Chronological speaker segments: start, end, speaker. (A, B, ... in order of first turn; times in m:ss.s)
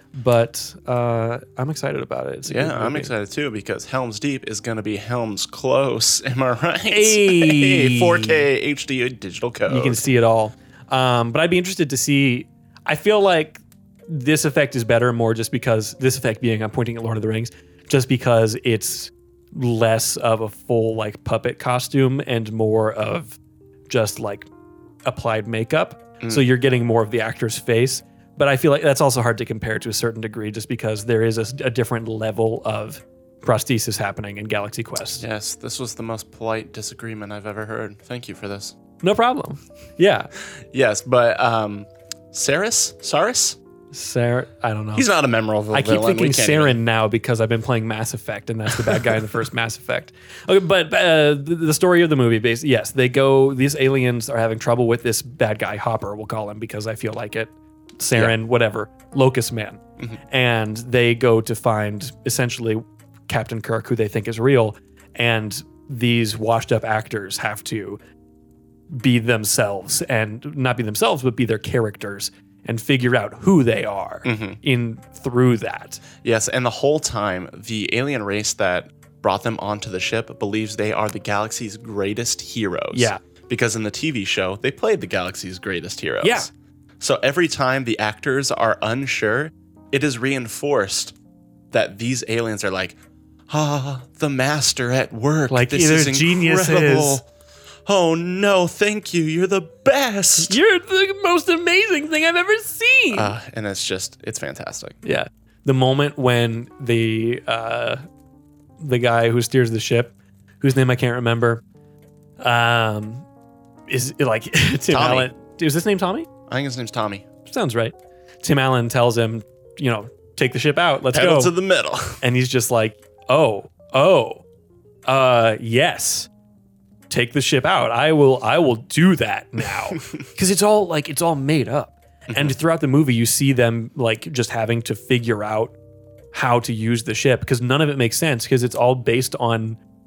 0:00.1-0:03.1 A
0:02.5-0:10.0 B
0:06.9-0:08.4 A
0:09.7-0:23.4 A
0:23.9-0:24.5 A
0:25.0-0:35.2 A
0:26.2-0:26.5 B
0:35.2-0:38.8 B
0:39.0-0:40.3 A
0:40.7-0:43.6 B
0:43.9-0:45.1 A
0:45.0-0:46.8 B
0:45.7-1:08.0 A
0:48.8-0:49.2 B
1:08.9-1:16.0 A
1:14.2-1:14.6 B
1:16.2-1:31.1 B
1:22.9-1:23.2 A
1:26.2-1:26.5 A
1:31.7-1:33.0 B
1:33.5-1:37.3 B
1:35.5-1:37.2 A
1:37.8-1:40.6 B
1:40.4-1:43.3 A
1:43.1-1:45.0 B
1:45.0-1:48.0 A
1:48.8-1:51.6 A
1:52.4-1:53.2 A
1:53.9-1:56.3 A
1:54.9-1:55.3 B
1:56.5-1:57.2 B
1:57.4-2:01.5 A
2:01.1-2:02.2 B
2:02.2-2:04.4 A
2:05.1-2:06.3 A
2:07.1-2:15.7 A
2:09.9-2:10.2 B
2:12.3-2:12.5 B
2:16.3-2:19.8 A